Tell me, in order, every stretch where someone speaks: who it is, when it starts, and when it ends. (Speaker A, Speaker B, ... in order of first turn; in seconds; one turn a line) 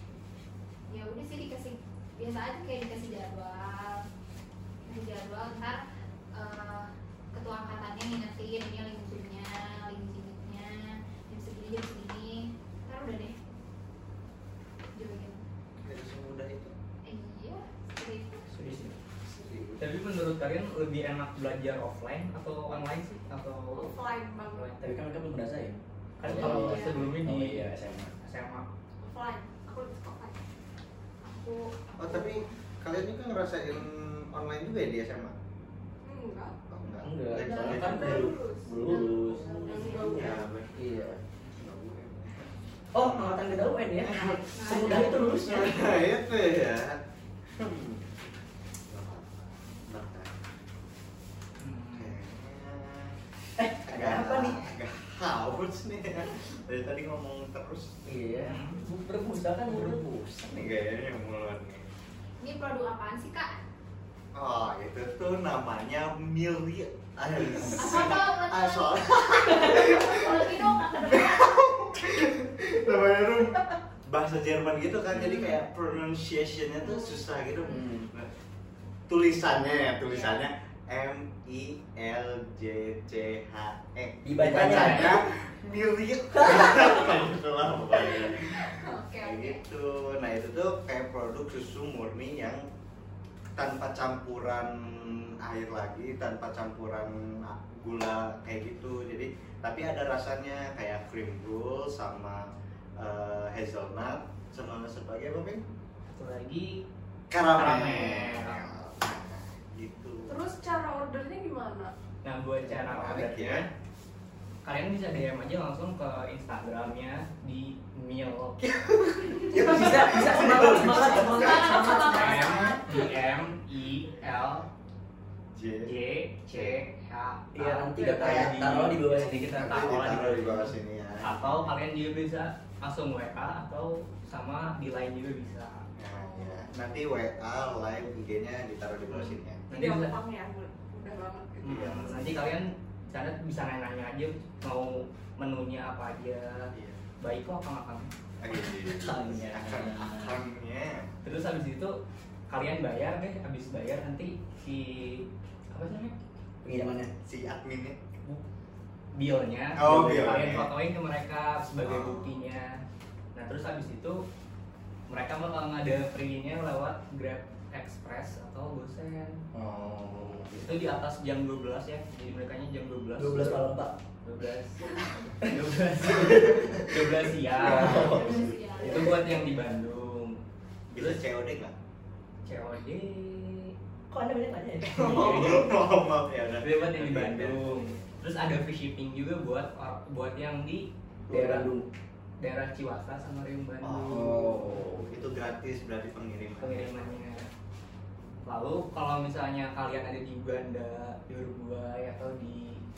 Speaker A: 0.9-4.0
Speaker A: 4.8-5.8
Speaker A: 6.3-13.3
Speaker A: 14.9-15.4
Speaker B: 15.8-16.7
Speaker A: 17.1-18.5
Speaker C: 18.5-19.0
Speaker B: 19.2-19.8
Speaker D: 19.8-23.9
Speaker E: 23.7-24.8
Speaker D: 24.5-24.8
Speaker C: 24.8-28.1
Speaker D: 26.2-27.7
Speaker A: 26.4-27.1
Speaker D: 28.2-28.7
Speaker E: 29.0-30.4
Speaker A: 31.2-32.5
Speaker B: 32.0-35.4
Speaker E: 36.0-36.5
Speaker B: 36.7-38.3
Speaker C: 37.0-40.2
Speaker A: 37.4-38.3
Speaker E: 37.8-38.9
Speaker A: 38.8-40.4
Speaker B: 39.5-43.4
Speaker E: 39.7-40.5
Speaker C: 40.7-41.2
Speaker C: 42.9-45.9
Speaker B: 44.0-47.0
Speaker A: 44.5-45.5
Speaker B: 47.5-48.2
Speaker B: 48.9-50.3
Speaker D: 51.6-52.1
Speaker B: 51.9-53.2
Speaker C: 53.6-54.7
Speaker B: 53.9-57.9
Speaker C: 58.0-60.0
Speaker D: 58.4-58.8
Speaker B: 59.7-61.9
Speaker A: 62.4-63.6
Speaker B: 64.3-78.3
Speaker A: 67.7-71.5
Speaker A: 75.2-75.5
Speaker C: 77.7-78.1
Speaker B: 79.1-92.7
Speaker A: 80.1-80.5
Speaker C: 84.2-85.2
Speaker D: 84.5-85.2
Speaker C: 86.3-87.3
Speaker A: 88.3-89.6
Speaker B: 93.6-102.4
Speaker B: 103.0-105.6
Speaker D: 106.1-106.8
Speaker B: 107.3-110.4
Speaker D: 107.4-108.7
Speaker E: 110.3-111.9
Speaker D: 112.2-113.7
Speaker B: 112.6-113.7
Speaker D: 114.6-118.6
Speaker B: 118.6-121.9
Speaker C: 119.5-122.5
Speaker A: 121.2-122.8
Speaker D: 122.0-124.7
Speaker B: 122.4-123.0
Speaker B: 125.5-125.9
Speaker D: 125.8-135.8
Speaker B: 126.5-126.8
Speaker C: 127.5-129.7
Speaker B: 128.2-131.7
Speaker B: 136.0-139.7
Speaker D: 139.1-140.1
Speaker E: 139.7-142.1
Speaker D: 141.6-148.1
Speaker B: 141.7-142.5
Speaker B: 146.7-147.0
Speaker B: 148.4-151.1
Speaker C: 148.7-150.4
Speaker D: 151.2-152.0
Speaker D: 152.5-156.1
Speaker C: 156.6-157.1
Speaker B: 157.2-158.0
Speaker D: 159.1-162.8
Speaker B: 159.8-160.7
Speaker C: 159.9-160.3
Speaker B: 161.8-162.4
Speaker D: 163.3-164.2
Speaker D: 165.1-169.4
Speaker B: 169.5-170.6
Speaker D: 170.1-173.6
Speaker C: 173.2-173.9
Speaker D: 174.2-178.3
Speaker C: 175.4-176.8
Speaker B: 176.3-176.8
Speaker B: 177.6-178.4
Speaker C: 177.6-179.4
Speaker A: 177.9-179.1
Speaker D: 178.8-180.4
Speaker B: 180.9-181.7
Speaker D: 180.9-181.2
Speaker D: 182.4-183.7
Speaker C: 184.1-185.7
Speaker B: 184.9-187.9
Speaker D: 185.0-185.7
Speaker D: 186.6-191.7
Speaker C: 191.3-191.9
Speaker D: 192.4-194.8
Speaker B: 193.8-197.2
Speaker C: 194.1-194.8
Speaker D: 196.6-197.5
Speaker D: 198.4-202.8